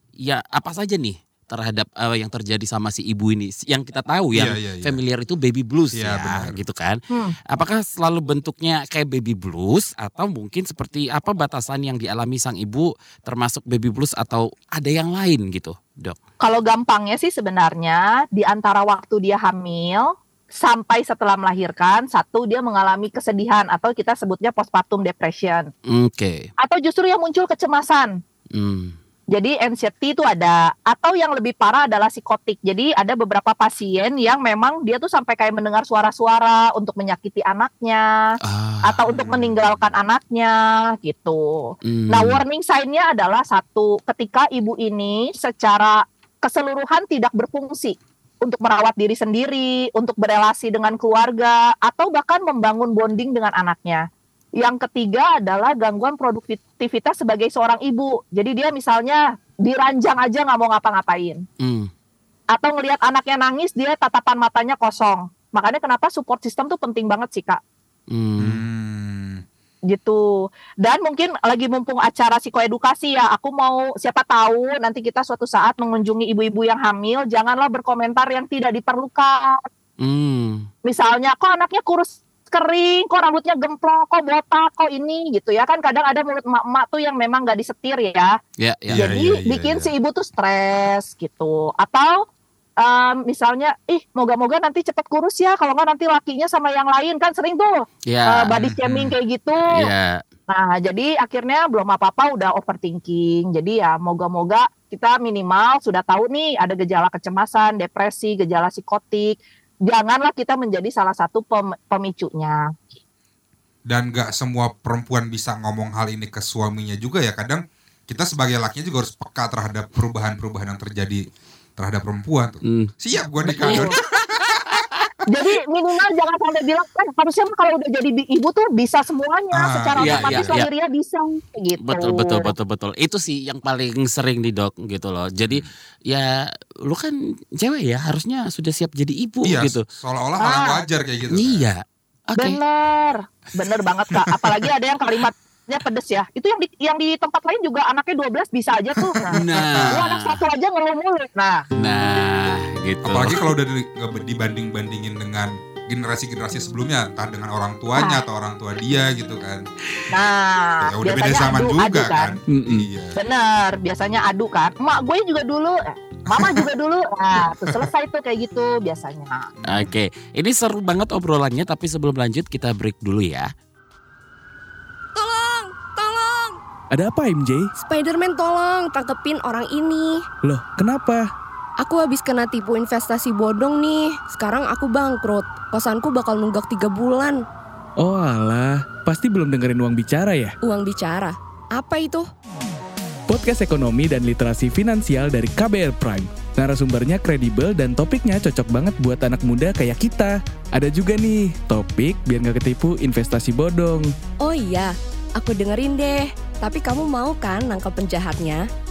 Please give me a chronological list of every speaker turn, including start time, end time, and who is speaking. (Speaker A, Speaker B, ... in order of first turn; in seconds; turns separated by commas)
Speaker A: 0.2-16.2, Speaker B: 4.3-5.0, Speaker B: 6.0-6.6, Speaker C: 16.4-25.7, Speaker A: 25.9-26.5, Speaker C: 26.6-28.1, Speaker A: 28.5-28.9, Speaker C: 29.3-54.1, Speaker A: 38.4-39.0, Speaker B: 39.1-40.0, Speaker A: 41.9-42.4, Speaker C: 54.6-61.4, Speaker A: 61.6-61.9, Speaker C: 62.5-67.6, Speaker A: 68.1-68.6, Speaker B: 68.4-69.4, Speaker C: 69.9-70.2, Speaker C: 70.8-79.7, Speaker A: 80.0-80.7, Speaker C: 80.8-88.3, Speaker A: 88.6-89.1, Speaker B: 88.9-89.9, Speaker C: 89.0-92.2, Speaker C: 92.8-97.8, Speaker A: 98.1-98.7, Speaker C: 98.3-99.8, Speaker B: 98.7-99.1, Speaker A: 99.7-100.2, Speaker C: 100.5-109.4, Speaker C: 109.9-113.0, Speaker B: 113.9-121.2, Speaker B: 121.8-124.8, Speaker A: 122.6-122.9, Speaker A: 123.4-125.1, Speaker C: 123.6-123.9, Speaker C: 125.3-132.5, Speaker B: 129.5-130.6, Speaker A: 130.0-130.7, Speaker A: 131.8-139.8, Speaker B: 139.4-141.7, Speaker C: 140.4-140.8, Speaker A: 141.3-142.6, Speaker C: 142.4-151.6, Speaker B: 149.0-150.0, Speaker A: 149.3-150.4, Speaker A: 151.8-153.4, Speaker B: 153.0-159.7, Speaker C: 158.0-158.2, Speaker C: 160.1-162.4, Speaker B: 160.8-163.2, Speaker A: 162.5-162.9, Speaker C: 163.2-169.5, Speaker B: 166.3-166.7, Speaker B: 167.6-167.9, Speaker B: 169.6-169.9, Speaker A: 169.7-173.5, Speaker D: 175.2-176.6, Speaker E: 176.9-177.7, Speaker D: 177.8-180.2, Speaker E: 180.4-181.2, Speaker D: 181.8-187.4, Speaker E: 188.0-190.5, Speaker D: 190.6-192.3, Speaker E: 193.3-204.1, Speaker D: 204.4-208.7